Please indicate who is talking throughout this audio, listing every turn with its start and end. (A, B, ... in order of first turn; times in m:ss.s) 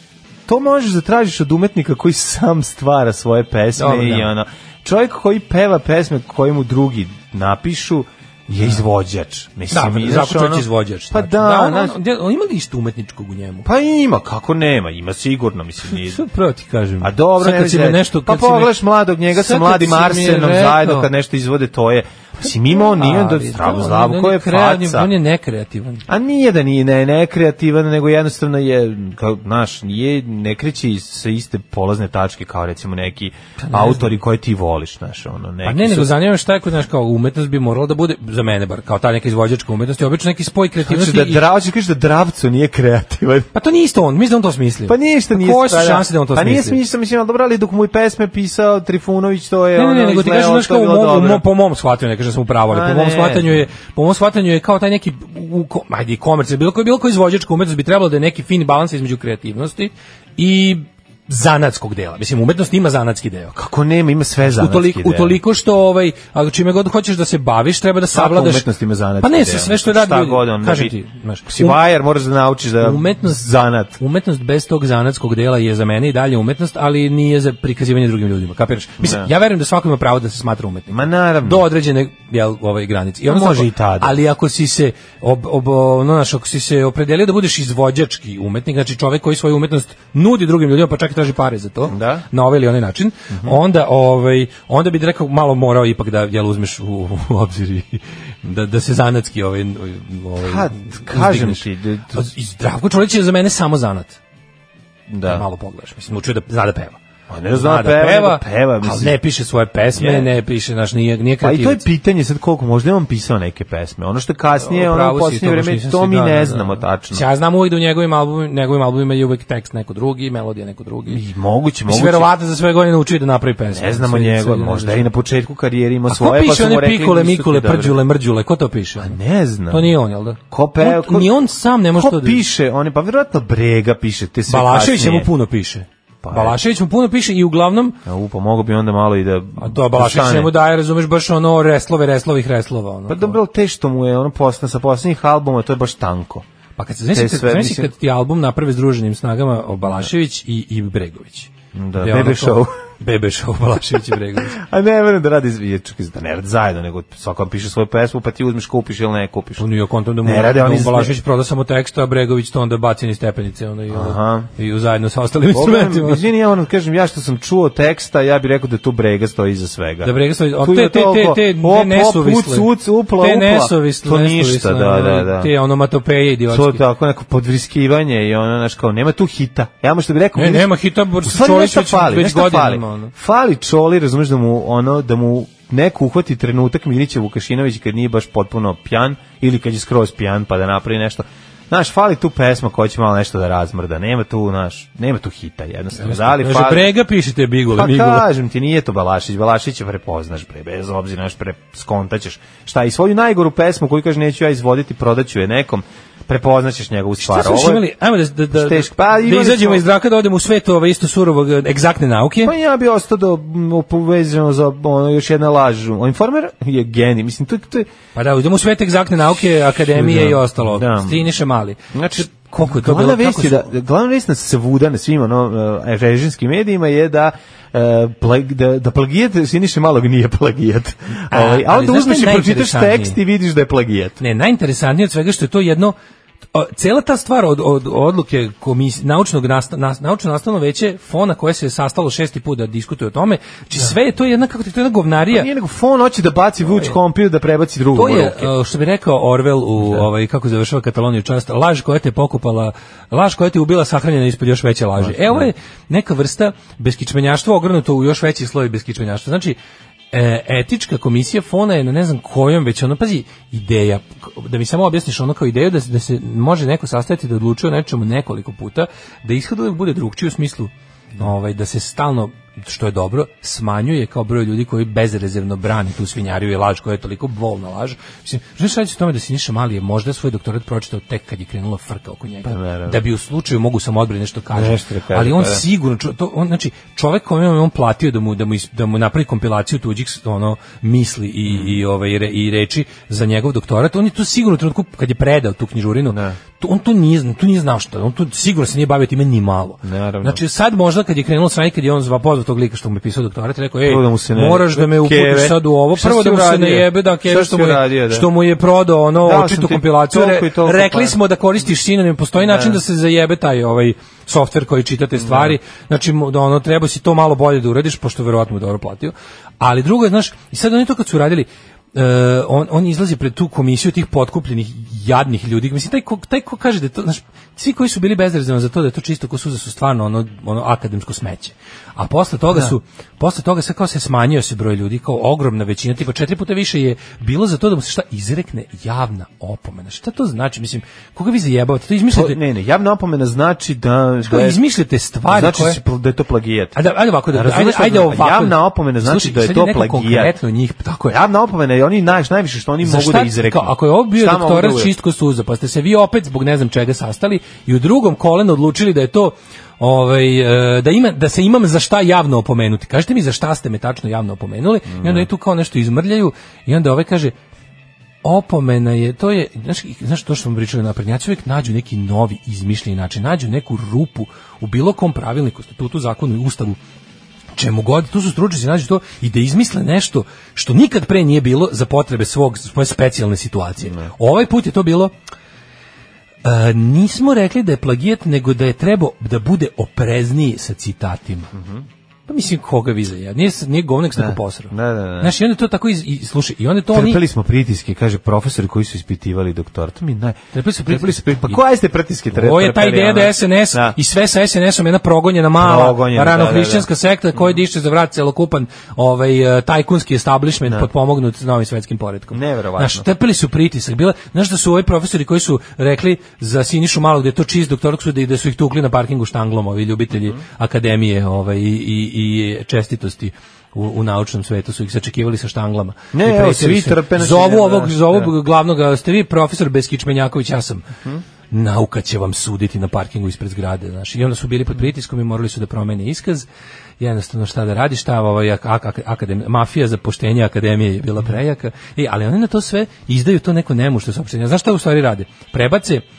0:00.5-0:12.0 A
0:03.8-0:04.3 B
0:09.7-0:13.7 B
0:13.6-0:16.2 A
0:15.9-0:18.8 B
0:17.0-0:25.1 A
0:19.3-0:21.1 B
0:22.4-0:26.0 B
0:26.1-0:36.2 A
0:33.6-0:34.1 B
0:35.6-0:41.4 B
0:40.8-0:43.5 A
0:43.5-0:46.8 B
0:44.9-0:51.4 A
0:49.8-1:03.6 B
0:52.7-0:53.7 A
1:03.6-1:05.4 A
1:04.4-1:08.7 B
1:08.1-1:11.0 A
1:09.2-1:11.8 B
1:11.5-1:14.0 A
1:12.8-1:13.4 B
1:14.0-1:44.2 B
1:19.0-1:19.3 A
1:20.9-1:21.7 A
1:23.3-1:24.2 A
1:31.9-1:32.3 A
1:33.3-1:33.6 A
1:40.4-1:42.3 A
1:45.1-1:45.4 A
1:45.2-1:47.0 B
1:47.3-1:49.2 A
1:47.5-1:51.8 B
1:50.0-1:50.3 A
1:51.4-1:57.3 A
1:54.6-2:01.2 B
2:01.1-2:02.3 A
2:01.9-2:05.1 B
2:03.7-2:08.0 A
2:06.1-2:09.2 B
2:09.0-2:10.0 A
2:09.7-2:12.4 B
2:10.5-2:11.4 A
2:11.9-2:15.3 A
2:14.5-2:18.0 B
2:16.2-2:16.6 A
2:18.0-2:20.5 A
2:19.6-2:23.4 B
2:23.1-2:26.5 A
2:26.8-2:34.6 B
2:27.1-2:27.9 A
2:31.7-2:32.8 A
2:34.5-2:39.6 A
2:39.6-2:46.2 B
2:40.2-2:41.1 A
2:43.9-2:44.5 A
2:45.5-2:55.5 A
2:50.0-2:56.8 B
2:56.5-3:16.9 A
3:00.4-3:03.1 B
3:16.0-3:18.3 B
3:17.7-3:27.9 A
3:27.2-3:32.5 B
3:28.5-3:29.8 A
3:32.4-3:37.9 A
3:38.2-3:43.7 B
3:39.9-3:41.3 A
3:41.9-3:54.2 A
3:51.3-3:53.2 B
3:54.2-3:56.0 B
3:56.5-4:05.5 B
4:05.3-4:08.5 A
4:08.0-4:19.6 B
4:09.8-4:10.1 A
4:15.0-4:15.5 A
4:20.1-5:42.4 B
4:42.4-4:43.0 A
4:44.5-4:45.6 A
4:51.5-4:51.8 A
4:56.1-4:56.4 A
4:59.8-5:00.4 A
5:03.8-5:08.3 A
5:09.2-5:11.2 A
5:12.4-5:12.8 A
5:15.2-5:15.6 A
5:42.1-5:44.6 A
5:44.2-5:45.8 B
5:45.3-5:46.8 A
5:46.8-5:51.2 B
5:47.3-5:50.4 A
5:51.1-5:54.9 A
5:52.8-6:07.4 B
6:04.9-6:05.3 A
6:08.2-6:16.8 B
6:17.6-6:25.1 B
6:23.8-6:24.1 A
6:26.4-6:31.5 B
6:31.5-6:31.9 A
6:32.3-6:37.2 B
6:34.2-6:35.4 A
6:36.9-6:44.0 A
6:40.5-6:41.6 B
6:42.3-7:10.9 B
6:45.6-6:47.6 A
6:52.3-6:53.1 A
7:06.1-7:08.3 A
7:11.5-7:16.5 B
7:17.0-7:26.0 B